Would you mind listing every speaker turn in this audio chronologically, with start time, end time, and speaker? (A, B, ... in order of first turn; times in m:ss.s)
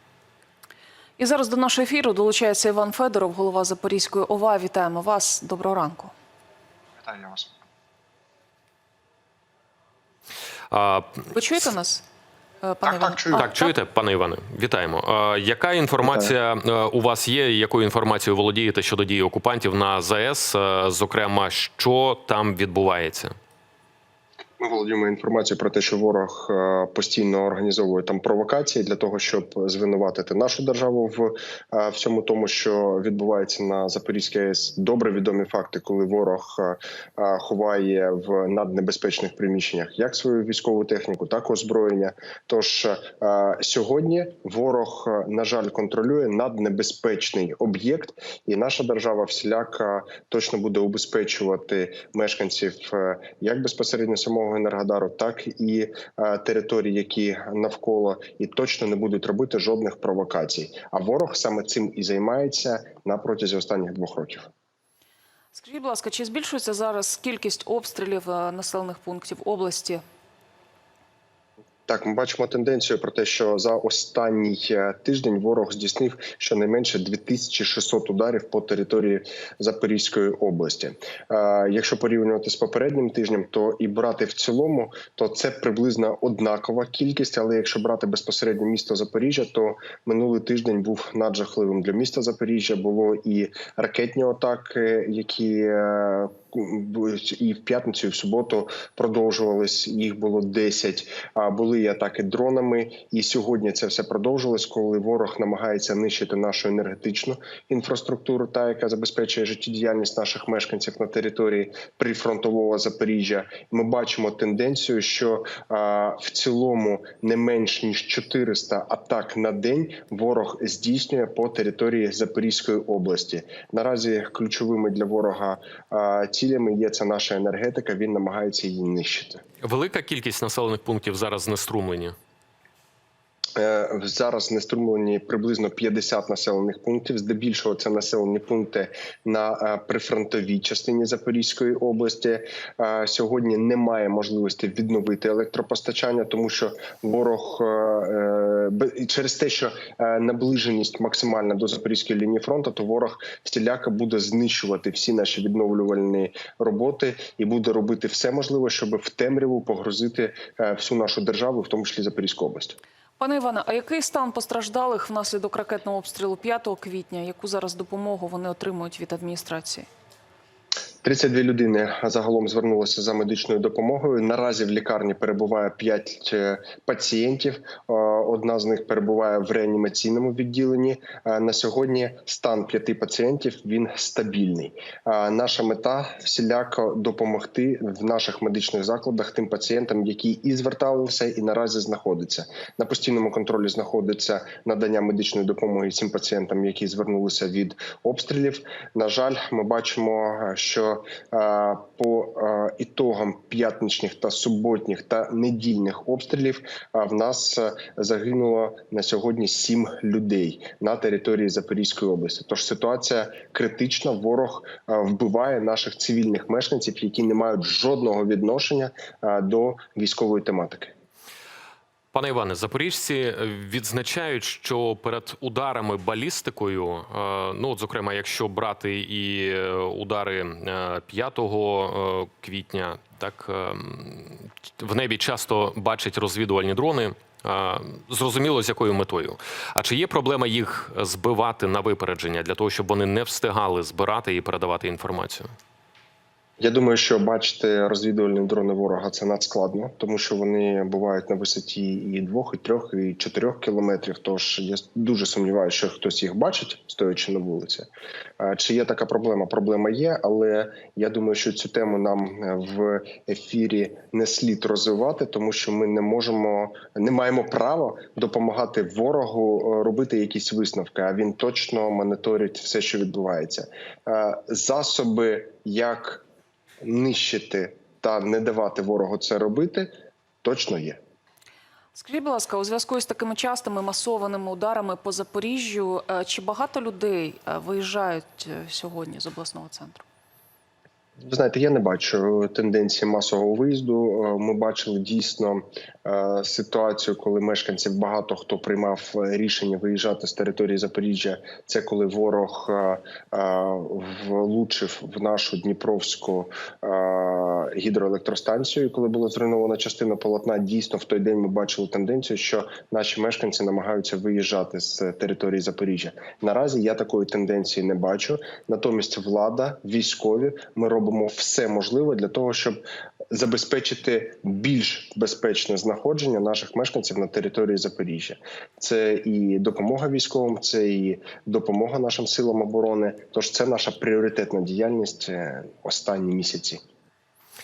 0:01.2-0:06.1 A
0:07.0-0:07.5 B
0:10.7-0:11.3 C
0:11.3-0:12.0 A
0:12.6-0:13.7 A
0:12.8-0:13.5 B
0:13.3-0:23.3 C
0:16.0-0:16.3 B
0:24.6-1:04.5 B
1:05.5-1:10.0 A
1:11.9-2:09.4 B
2:09.6-2:12.1 C
2:13.6-2:42.8 B
2:43.2-2:49.9 A
2:51.0-3:40.9 B
3:42.1-4:05.5 C
4:06.6-4:17.9 B
4:18.4-4:36.2 B
4:36.8-4:39.9 B
4:40.4-4:41.0 B
4:41.9-4:50.0 A
4:51.2-5:22.8 B
5:23.3-5:36.8 B